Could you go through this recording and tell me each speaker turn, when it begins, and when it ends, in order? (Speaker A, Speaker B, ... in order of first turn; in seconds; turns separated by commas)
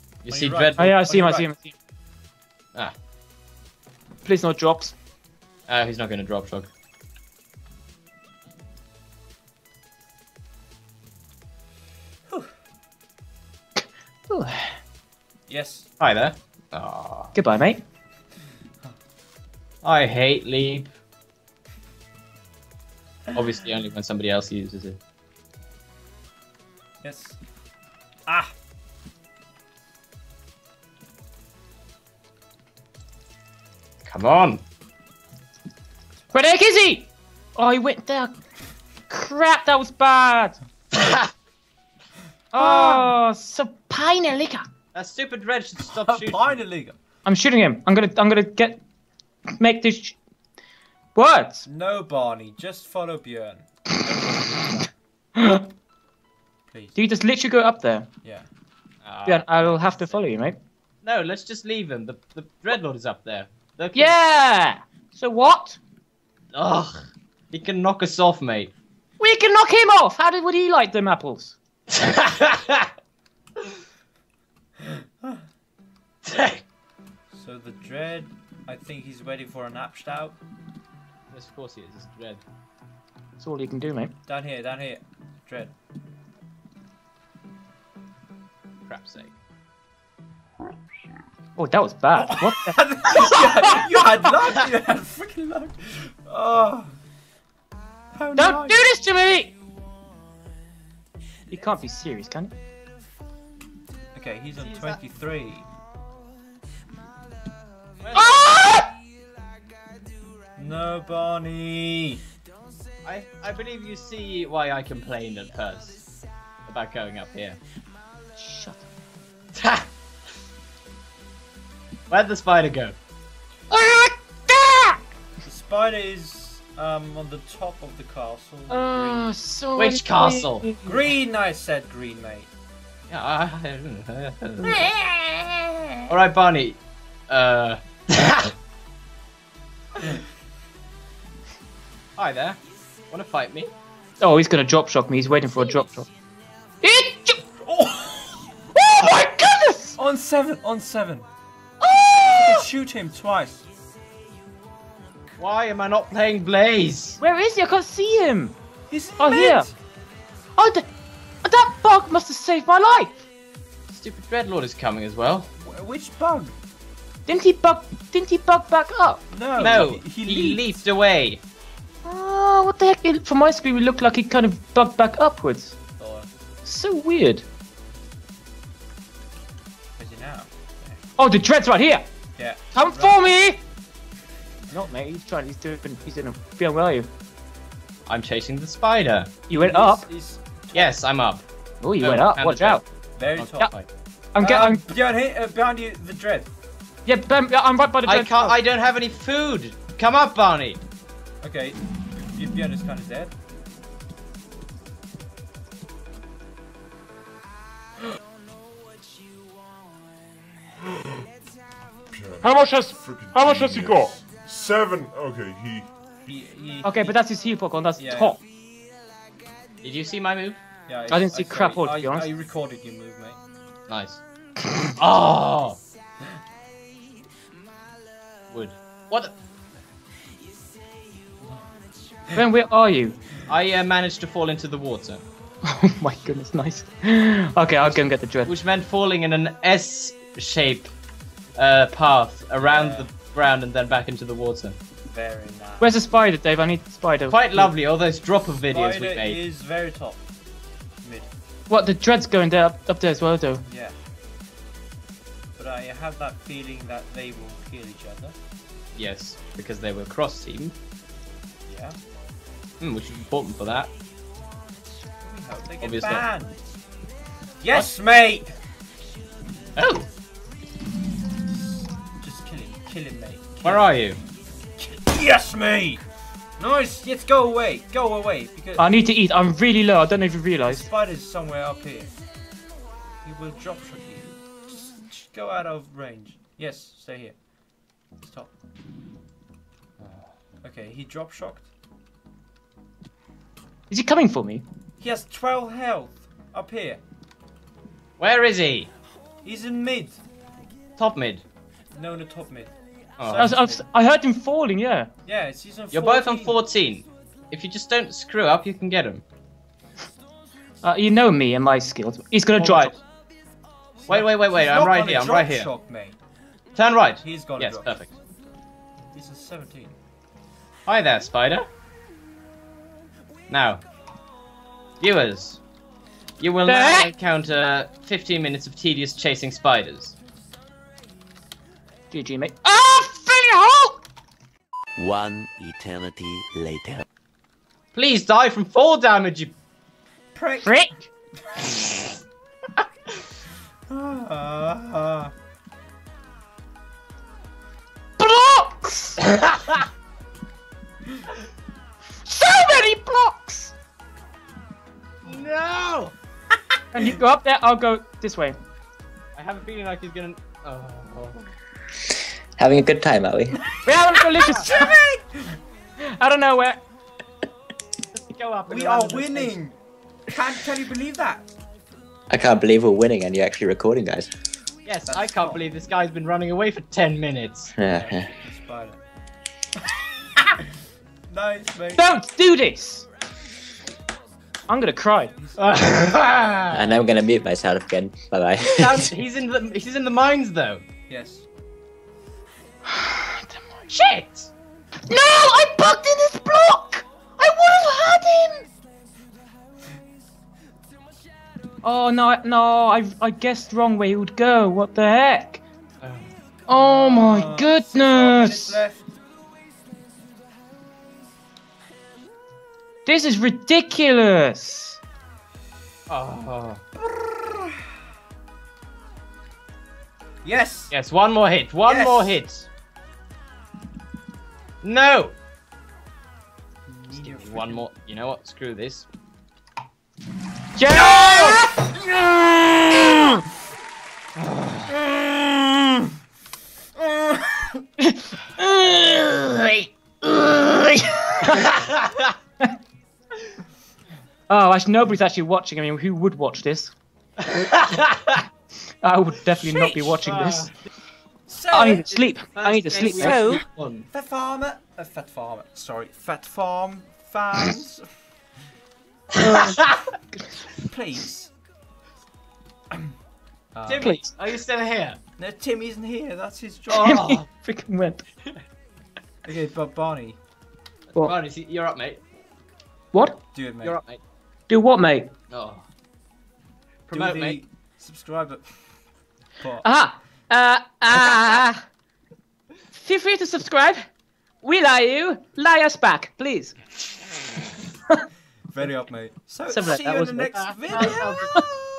Speaker A: 0.2-0.9, Speaker B: 0.3-1.5, Speaker C: 0.8-1.7, Speaker C: 4.2-5.0, Speaker A: 5.7-6.7, Speaker C: 14.3-14.8, Speaker B: 15.5-15.9, Speaker A: 16.0-17.3, Speaker C: 17.4-17.8, Speaker A: 19.8-20.9, Speaker A: 23.3-25.0, Speaker B: 27.0-27.4, Speaker B: 28.3-28.5, Speaker A: 34.0-34.6, Speaker C: 36.3-38.4, Speaker C: 39.1-40.6, Speaker A: 40.9-41.3, Speaker C: 42.5-44.6, Speaker B: 42.6-43.1, Speaker A: 44.9-46.6, Speaker B: 45.9-47.0, Speaker C: 47.3-48.8, Speaker C: 49.6-50.2, Speaker C: 51.2-51.7, Speaker B: 51.6-54.9, Speaker C: 55.4-55.7, Speaker B: 56.7-57.0, Speaker C: 57.0-58.1, Speaker A: 59.0-60.1, Speaker C: 59.3-60.6, Speaker A: 61.0-64.2, Speaker C: 64.0-65.8, Speaker A: 66.5-68.7, Speaker C: 69.2-71.6, Speaker A: 71.9-72.9, Speaker B: 74.8-75.4, Speaker A: 76.2-76.6, Speaker B: 77.3-80.4, Speaker A: 81.3-82.4, Speaker C: 83.4-84.1, Speaker B: 84.3-85.7, Speaker A: 88.9-89.3, Speaker C: 91.6-93.9, Speaker B: 92.2-97.0, Speaker B: 98.2-98.8, Speaker C: 98.4-99.5, Speaker C: 101.5-102.5, Speaker B: 104.2-105.7, Speaker A: 104.6-105.0, Speaker A: 108.0-108.4, Speaker C: 108.1-108.9, Speaker B: 110.6-112.2, Speaker A: 113.0-116.0, Speaker A: 116.7-117.6, Speaker C: 118.4-118.9, Speaker A: 119.5-119.9, Speaker A: 122.1-123.0, Speaker C: 123.7-125.0, Speaker B: 125.4-129.3, Speaker C: 128.7-131.0, Speaker A: 129.8-130.7, Speaker B: 130.9-132.5, Speaker A: 133.1-134.9, Speaker C: 134.8-135.7, Speaker A: 136.1-138.6, Speaker A: 142.2-143.7, Speaker C: 144.2-146.1, Speaker C: 146.8-147.4, Speaker B: 147.7-148.3, Speaker C: 148.7-150.0, Speaker B: 150.0-151.3, Speaker C: 151.8-152.7, Speaker B: 152.4-153.7, Speaker A: 155.4-157.2, Speaker C: 157.2-158.6, Speaker B: 158.9-159.7, Speaker C: 159.2-159.7, Speaker C: 160.6-160.9, Speaker C: 161.4-163.2, Speaker A: 163.9-165.5, Speaker B: 165.6-166.5, Speaker C: 167.3-169.2, Speaker B: 169.3-170.8, Speaker A: 169.6-171.4, Speaker C: 172.0-175.8, Speaker B: 176.0-176.3, Speaker C: 176.7-177.4, Speaker B: 180.0-181.0, Speaker C: 181.2-182.1, Speaker B: 182.4-183.3, Speaker C: 182.7-183.6, Speaker C: 184.7-187.1, Speaker A: 188.1-189.3, Speaker C: 189.5-190.1, Speaker B: 189.5-191.0, Speaker A: 190.7-191.4, Speaker C: 191.8-192.8, Speaker A: 192.0-192.8, Speaker B: 193.2-193.8, Speaker A: 193.3-193.9, Speaker C: 194.3-194.8, Speaker B: 194.4-196.5, Speaker C: 197.1-198.6, Speaker A: 198.1-200.8, Speaker B: 201.4-203.3, Speaker D: 212.4-215.8, Speaker B: 216.3-217.2, Speaker C: 216.8-218.4, Speaker B: 218.0-218.4, Speaker A: 219.8-220.6, Speaker B: 220.9-223.4, Speaker C: 221.1-222.3, Speaker A: 223.9-224.2, Speaker A: 225.0-225.8, Speaker A: 228.5-229.3, Speaker C: 232.3-233.2, Speaker A: 233.5-235.2, Speaker C: 235.6-238.5, Speaker A: 237.8-240.9, Speaker A: 241.6-244.8, Speaker B: 242.6-243.1, Speaker B: 245.1-246.0, Speaker C: 245.8-247.7, Speaker A: 247.3-249.4, Speaker B: 248.7-250.2, Speaker B: 251.0-251.3, Speaker C: 251.7-253.6, Speaker B: 253.7-253.9, Speaker B: 255.6-258.3, Speaker A: 259.0-260.8, Speaker B: 261.7-262.0, Speaker A: 262.8-263.9, Speaker B: 265.2-266.6, Speaker A: 265.8-266.3, Speaker B: 267.6-268.6, Speaker A: 269.8-270.1, Speaker B: 271.5-273.9, Speaker A: 273.6-274.2, Speaker B: 274.8-276.0, Speaker B: 276.6-278.9, Speaker C: 278.8-280.9, Speaker B: 280.7-282.1, Speaker B: 283.2-287.4, Speaker B: 288.2-288.5, Speaker A: 290.0-290.3, Speaker B: 290.6-291.7, Speaker C: 293.9-294.6, Speaker B: 295.0-297.0, Speaker A: 298.2-298.9, Speaker B: 299.4-300.2, Speaker A: 301.0-301.4, Speaker B: 301.9-303.8, Speaker A: 303.2-303.5, Speaker C: 303.4-305.1, Speaker B: 305.3-306.6, Speaker A: 305.9-309.2, Speaker C: 310.8-312.9, Speaker A: 312.6-313.0, Speaker B: 314.0-316.2, Speaker A: 314.1-315.7, Speaker A: 316.8-318.1, Speaker B: 317.2-318.0, Speaker B: 319.1-319.9, Speaker A: 320.9-321.7, Speaker A: 323.5-323.8, Speaker A: 325.0-325.6, Speaker A: 326.4-330.2, Speaker C: 326.7-327.1, Speaker C: 332.1-334.0, Speaker E: 335.0-337.1, Speaker A: 337.9-339.6, Speaker B: 340.4-340.9, Speaker C: 340.6-341.0, Speaker B: 341.5-341.8, Speaker B: 343.9-345.3, Speaker C: 348.2-349.2, Speaker A: 349.4-349.8, Speaker C: 352.2-353.7, Speaker A: 355.2-356.1, Speaker C: 356.9-358.6, Speaker A: 359.4-361.5, Speaker F: 362.6-363.6, Speaker C: 363.8-364.9, Speaker B: 364.4-365.6, Speaker A: 364.4-364.6, Speaker C: 366.0-366.8, Speaker A: 368.1-369.6, Speaker B: 368.7-371.5, Speaker F: 372.3-374.3, Speaker A: 374.9-377.7, Speaker B: 375.1-375.7, Speaker F: 377.8-378.3, Speaker B: 377.8-379.0, Speaker B: 379.8-380.6, Speaker B: 381.3-382.1, Speaker C: 381.9-383.1, Speaker C: 384.7-385.4, Speaker B: 385.4-385.7, Speaker A: 385.6-387.0, Speaker F: 386.7-389.1, Speaker A: 388.6-390.8, Speaker B: 391.1-391.5, Speaker C: 392.9-393.6, Speaker A: 393.9-394.5, Speaker C: 395.1-398.7, Speaker C: 401.8-405.6, Speaker A: 406.0-406.3, Speaker C: 406.7-408.8, Speaker B: 406.7-409.1, Speaker C: 413.1-415.0, Speaker A: 416.1-416.8, Speaker B: 417.0-418.0, Speaker B: 420.4-420.9, Speaker A: 420.9-422.7, Speaker B: 421.9-422.4, Speaker A: 424.8-425.4, Speaker B: 426.9-427.8, Speaker A: 427.1-429.1, Speaker C: 430.8-431.9, Speaker B: 431.1-432.4, Speaker A: 434.5-434.8, Speaker B: 434.9-436.0, Speaker B: 437.0-437.8, Speaker C: 438.0-439.8, Speaker C: 441.4-441.8, Speaker A: 441.5-442.4, Speaker C: 444.5-446.9, Speaker A: 447.4-448.5, Speaker C: 449.0-450.7, Speaker A: 449.7-450.8, Speaker B: 451.5-452.1, Speaker C: 451.7-453.6, Speaker A: 452.1-454.1, Speaker B: 454.1-458.1, Speaker A: 459.3-460.0, Speaker C: 459.4-459.8, Speaker B: 460.8-461.5, Speaker B: 463.7-464.2, Speaker A: 463.9-465.2, Speaker C: 464.0-464.3, Speaker B: 465.4-467.2, Speaker C: 466.9-468.3, Speaker A: 466.9-467.5, Speaker B: 469.4-470.4, Speaker A: 471.1-472.2, Speaker C: 473.1-473.4, Speaker B: 473.5-474.0, Speaker A: 473.8-474.2, Speaker C: 474.7-475.3, Speaker A: 475.5-475.9, Speaker A: 477.1-477.6, Speaker B: 477.1-479.0, Speaker B: 479.6-479.9, Speaker C: 479.8-481.9, Speaker C: 482.9-484.1, Speaker C: 484.6-486.8, Speaker B: 488.7-491.7, Speaker C: 489.7-491.7, Speaker A: 490.5-491.6